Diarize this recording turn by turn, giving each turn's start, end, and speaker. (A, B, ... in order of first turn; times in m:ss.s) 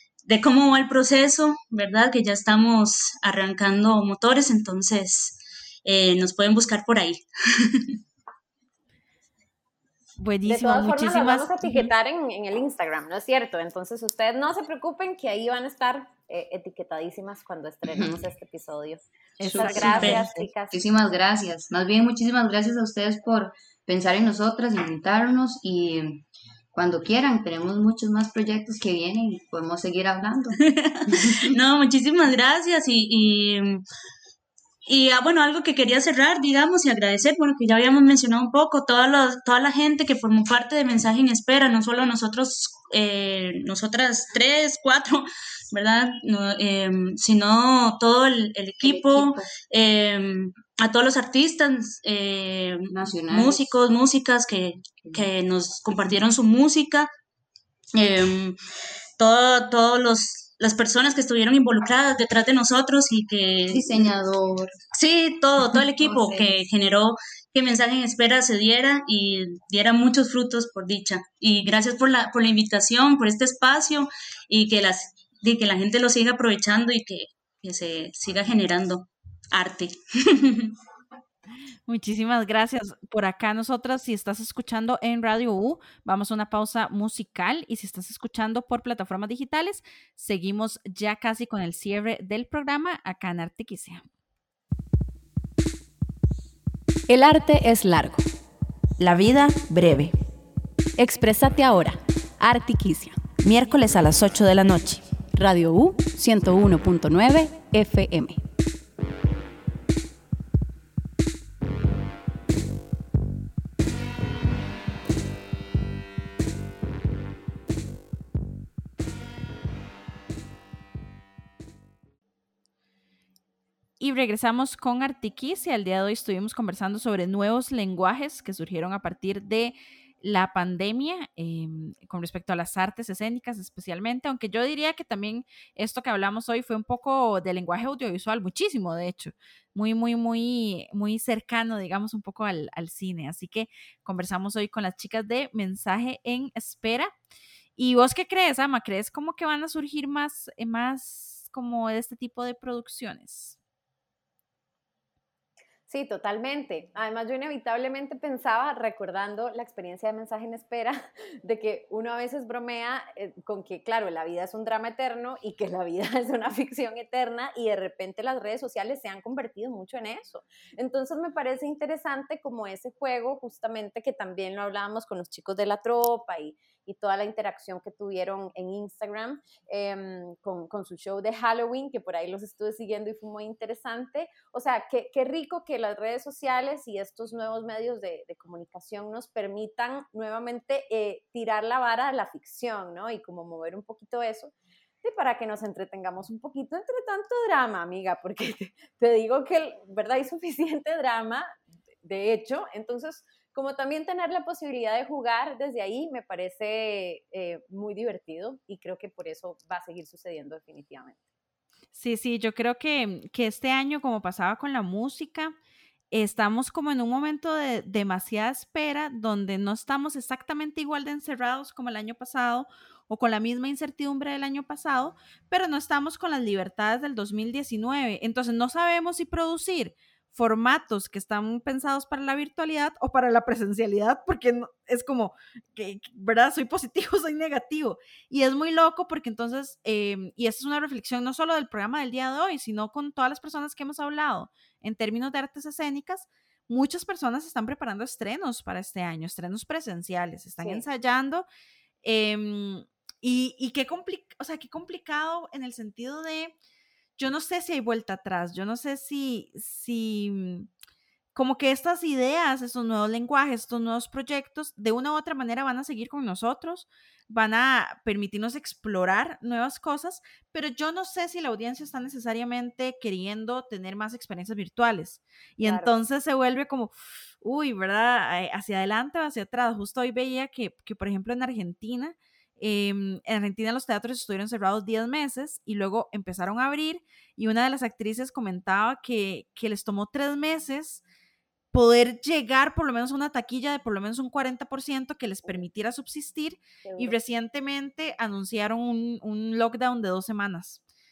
0:00.2-0:08.0 A
0:10.2-0:11.9 B
0:10.4-0:20.8 C
0:17.9-0:18.2 D
0:19.4-0:20.5 B
0:19.5-0:20.2 D
0:19.9-0:20.2 A
0:20.7-0:31.5 D
0:30.6-0:33.8 A
0:34.9-0:57.1 A
0:48.8-0:49.5 D
0:52.9-0:53.7 D
0:57.9-0:58.6 A
0:59.2-1:04.1 A
1:03.7-1:04.8 D
1:04.9-1:20.7 A
1:06.0-1:06.6 D
1:21.9-1:34.0 B
1:37.1-1:38.2 E
1:39.0-1:40.1 B
1:41.0-1:43.3 E
1:43.4-1:45.1 B
1:45.3-1:48.4 E
2:04.0-2:27.1 B
2:27.8-2:33.6 B
2:35.9-3:21.5 C
3:22.0-3:31.2 C
3:31.9-3:35.5 B
3:36.1-4:11.4 B
4:10.6-4:10.8 C
4:12.0-4:16.5 B
4:17.2-4:20.7 B
4:21.3-4:51.0 B
4:35.6-4:35.9 C
4:51.7-5:00.8 B
4:56.8-4:57.2 C